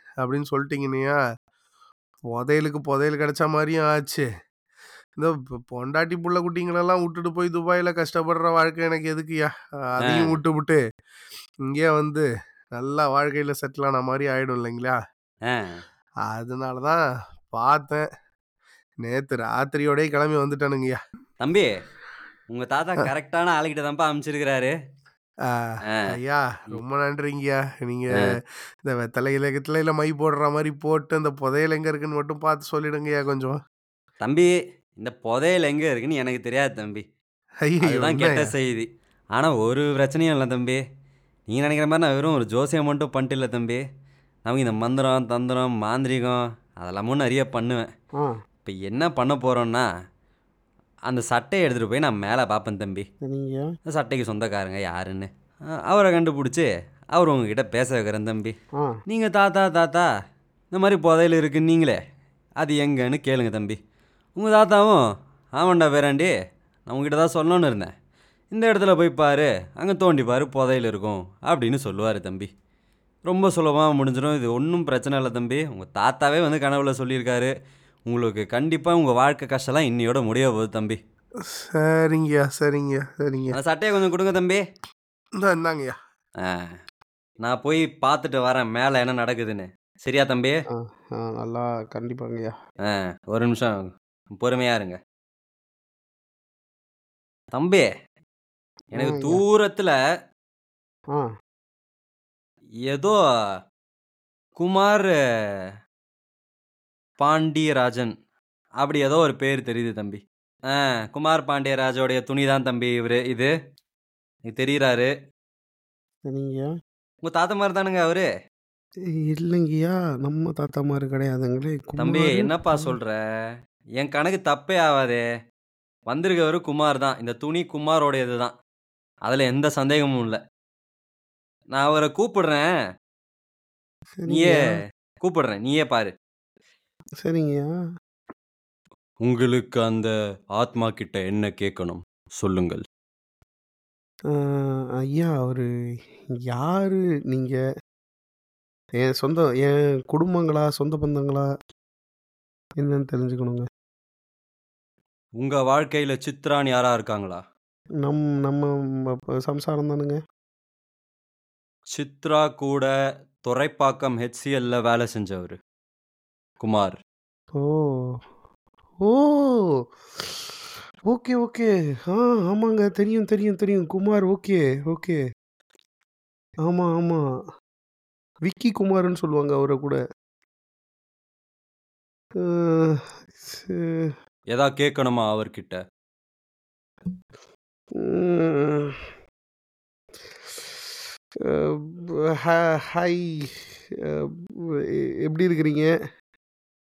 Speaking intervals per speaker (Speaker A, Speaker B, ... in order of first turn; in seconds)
Speaker A: 0.2-1.2, 2.3-4.2, 5.2-10.8, 11.7-12.2, 12.8-15.0, 16.3-17.0, 17.5-18.1, 19.0-21.0, 25.5-28.2, 28.9-33.6, 37.6-38.5, 81.7-83.6, 85.4-86.0
Speaker B: 10.0-10.3, 15.5-15.8, 21.4-21.7, 22.5-24.7, 34.2-37.0, 37.8-40.8, 41.5-43.8, 44.5-47.9, 48.6-49.8, 51.1-53.0, 53.9-55.3, 55.9-58.5, 59.1-60.1, 60.7-62.0, 62.6-63.8, 64.4-65.0, 65.6-66.3, 66.9-67.9, 68.5-72.5, 73.3-77.5, 78.1-81.0, 83.5-84.6, 86.4-86.8, 87.4-90.5, 92.9-93.8, 94.3-95.0, 97.5-97.9, 98.9-100.0, 102.9-103.2, 104.6-105.1, 107.2-108.1, 108.8-110.2, 110.7-113.5, 114.5-115.1, 117.2-118.3, 122.0-123.2, 124.0-125.2, 126.1-128.5, 129.3-130.4, 131.7-132.6, 134.3-134.6, 135.2-136.1, 139.2-142.8, 155.4-157.4, 161.9-162.9, 163.4-165.6, 166.6-167.0, 184.5-185.8
Speaker C: 53.2-53.7, 90.7-92.5, 99.0-99.4, 116.3-116.7, 119.3-122.9, 134.2-134.7, 137.2-137.7, 145.0-145.7, 146.5-147.6, 149.0-151.5, 152.8-153.7, 158.0-160.2, 167.6-168.0, 169.0-170.4, 171.1-175.2, 176.7-177.2, 178.5-180.0, 182.4-184.1, 188.0-189.0, 191.5-193.5, 195.3-195.9